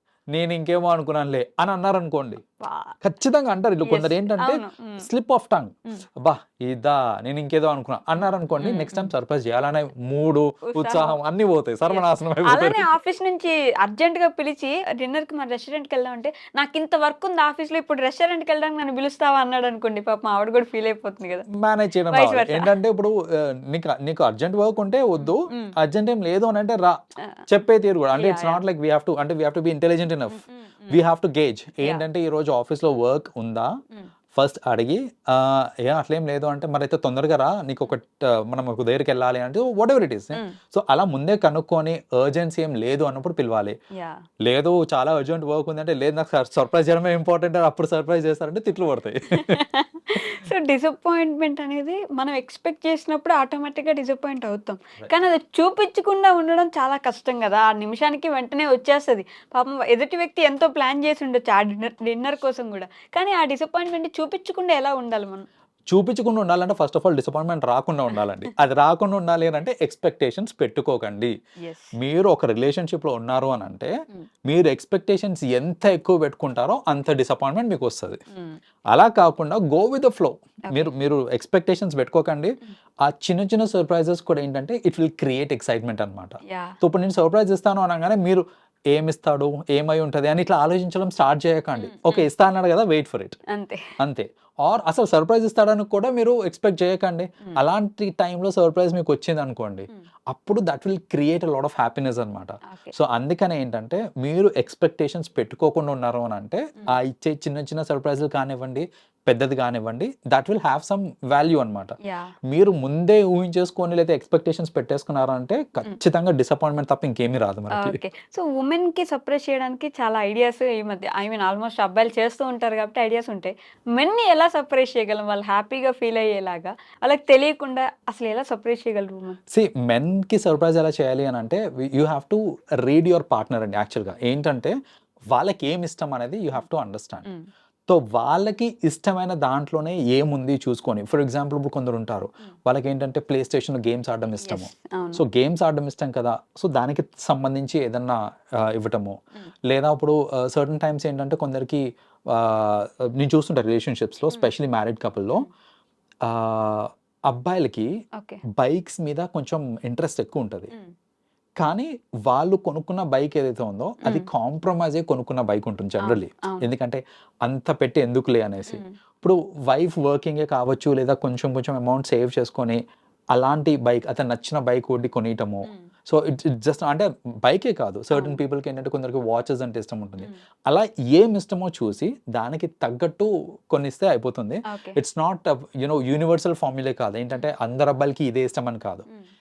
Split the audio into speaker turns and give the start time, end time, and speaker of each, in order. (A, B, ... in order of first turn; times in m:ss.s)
0:00.3-0:02.4 A
0:02.6-0:03.0 B
0:03.0-0:12.9 A
0:03.9-0:05.1 B
0:08.6-0:09.1 B
0:10.7-0:11.2 B
0:11.9-0:21.5 B
0:21.5-0:33.7 A
0:22.1-0:22.7 B
0:25.2-0:25.7 B
0:28.2-0:28.6 B
0:30.3-0:31.0 B
0:34.3-0:43.8 A
0:43.9-0:44.2 B
0:44.4-0:49.6 A
0:49.4-1:05.5 B
1:05.9-1:11.3 A
1:11.6-1:11.9 B
1:12.0-1:13.9 A
1:14.5-1:18.2 A
1:18.9-1:33.4 A
1:26.5-1:26.8 B
1:31.8-1:32.3 B
1:33.5-1:33.9 B
1:34.0-1:52.0 A
1:42.7-1:42.9 B
1:52.0-1:52.3 B
1:52.5-1:58.0 A
1:57.7-2:09.4 B
2:09.5-2:14.7 A
2:15.3-2:17.2 A
2:17.9-2:29.2 A
2:24.4-2:25.2 B
2:29.7-2:35.5 A
2:36.2-2:37.9 A
2:38.2-2:38.4 B
2:38.5-2:40.7 A
2:41.6-2:52.8 A
2:44.0-2:44.3 B
2:46.0-2:46.7 B
2:48.7-2:48.9 B
2:53.3-3:09.1 A
2:58.1-2:58.4 B
3:04.7-3:05.0 B